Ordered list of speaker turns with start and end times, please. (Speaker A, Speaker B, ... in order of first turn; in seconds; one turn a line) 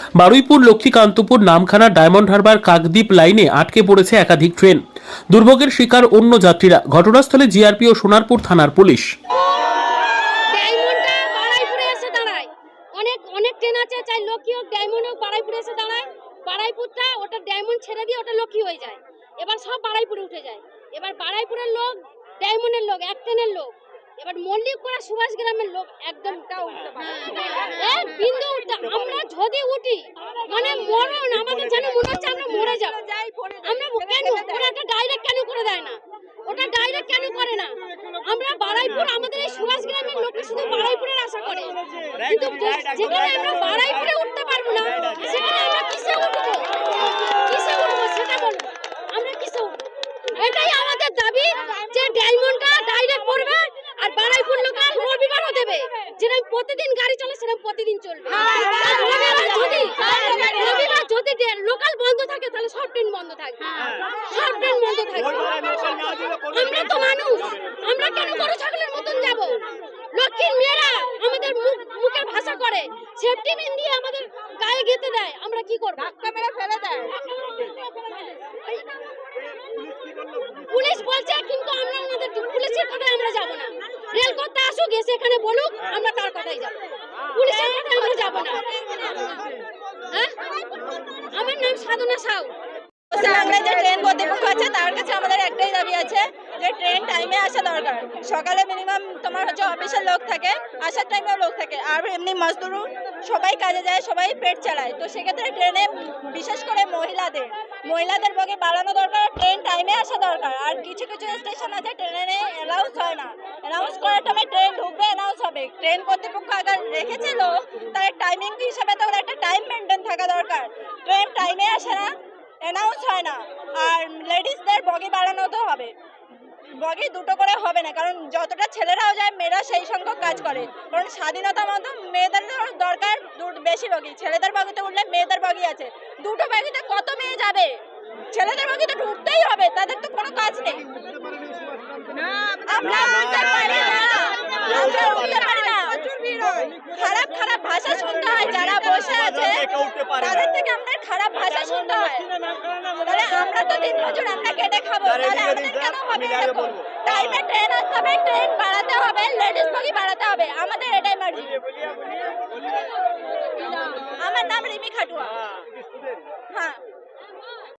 Speaker A: 0.2-9.1
Speaker B: 10.5-33.0
Speaker C: 26.8-27.6
Speaker C: 33.1-33.6
Speaker B: 33.6-49.8
Speaker B: 50.4-69.6
Speaker B: 70.1-76.3
Speaker C: 76.1-77.1
Speaker B: 80.7-86.8
Speaker B: 87.3-88.7
Speaker B: 90.1-90.4
Speaker B: 91.3-92.5
Speaker C: 93.1-125.9
Speaker C: 126.8-137.8
Speaker C: 138.3-140.8
Speaker C: 142.7-152.3
Speaker C: 153.0-161.6
Speaker C: 164.2-165.3